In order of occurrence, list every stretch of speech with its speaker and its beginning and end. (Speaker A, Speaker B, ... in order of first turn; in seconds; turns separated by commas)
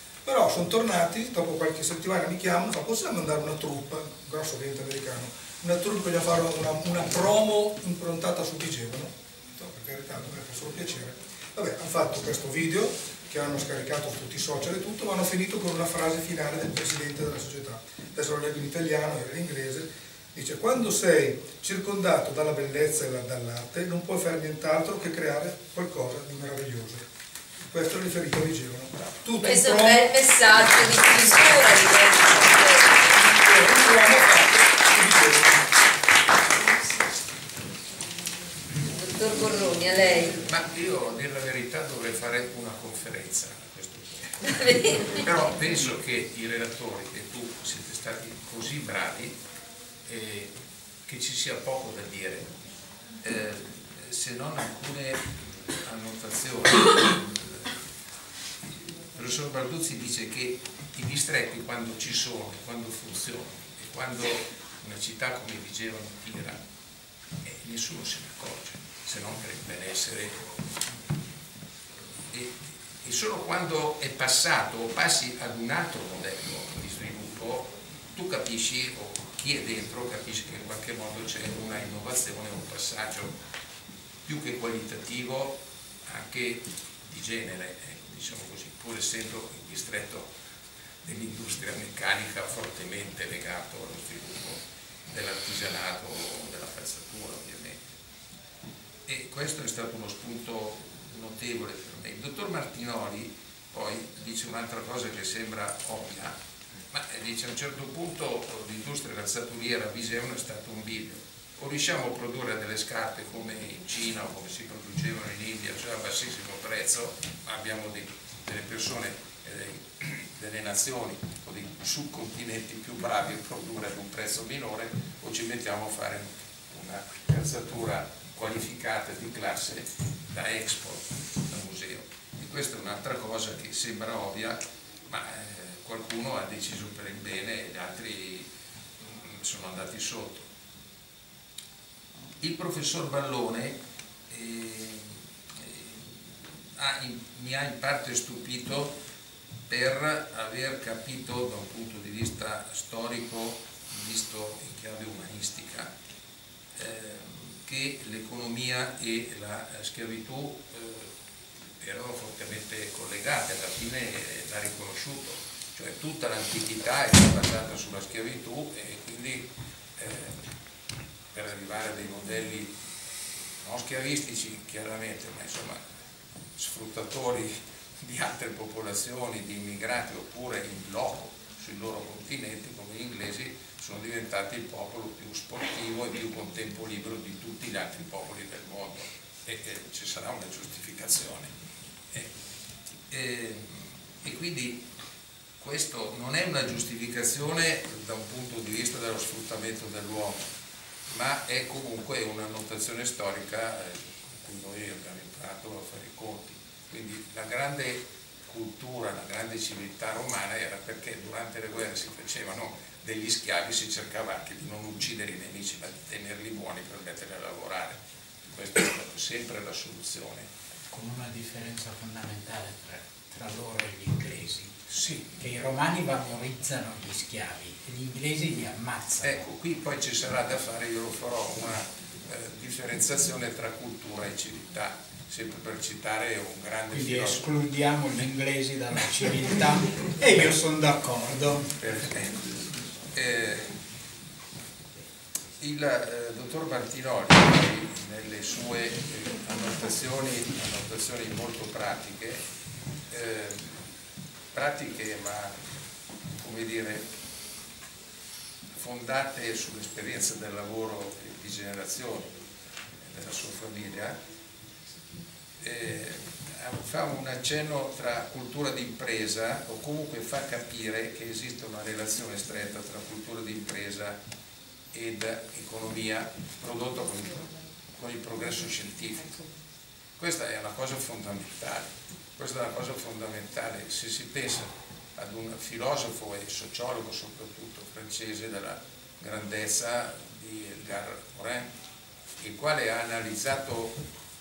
Speaker A: 0.2-27.1, Speaker A: 27.6-30.1, Speaker B: 29.4-33.2, Speaker A: 33.2-35.6, Speaker B: 38.9-40.4, Speaker C: 40.4-49.4, Speaker B: 44.4-45.2, Speaker C: 50.0-50.5, Speaker C: 51.0-52.5, Speaker C: 53.2-57.7, Speaker C: 59.1-66.6, Speaker C: 67.4-70.5, Speaker C: 72.3-83.3, Speaker C: 84.2-90.3, Speaker C: 91.0-97.8, Speaker C: 99.0-106.3, Speaker C: 106.9-140.5, Speaker C: 142.4-148.9, Speaker C: 149.7-155.9, Speaker C: 156.8-161.1, Speaker C: 161.8-170.4, Speaker C: 171.3-172.7, Speaker C: 173.6-175.8, Speaker C: 176.6-191.5, Speaker C: 193.1-194.8, Speaker C: 195.6-200.4, Speaker C: 201.1-218.0, Speaker C: 218.5-220.5, Speaker D: 220.9-229.4, Speaker C: 224.9-225.2, Speaker C: 229.2-237.5, Speaker D: 236.9-241.7, Speaker C: 241.8-243.8, Speaker C: 245.6-252.4, Speaker C: 253.1-253.9, Speaker C: 254.5-255.6, Speaker C: 256.4-257.1, Speaker C: 258.7-262.3, Speaker C: 263.0-264.2, Speaker C: 265.6-274.2, Speaker C: 274.9-279.5, Speaker C: 280.2-291.7, Speaker C: 292.4-294.0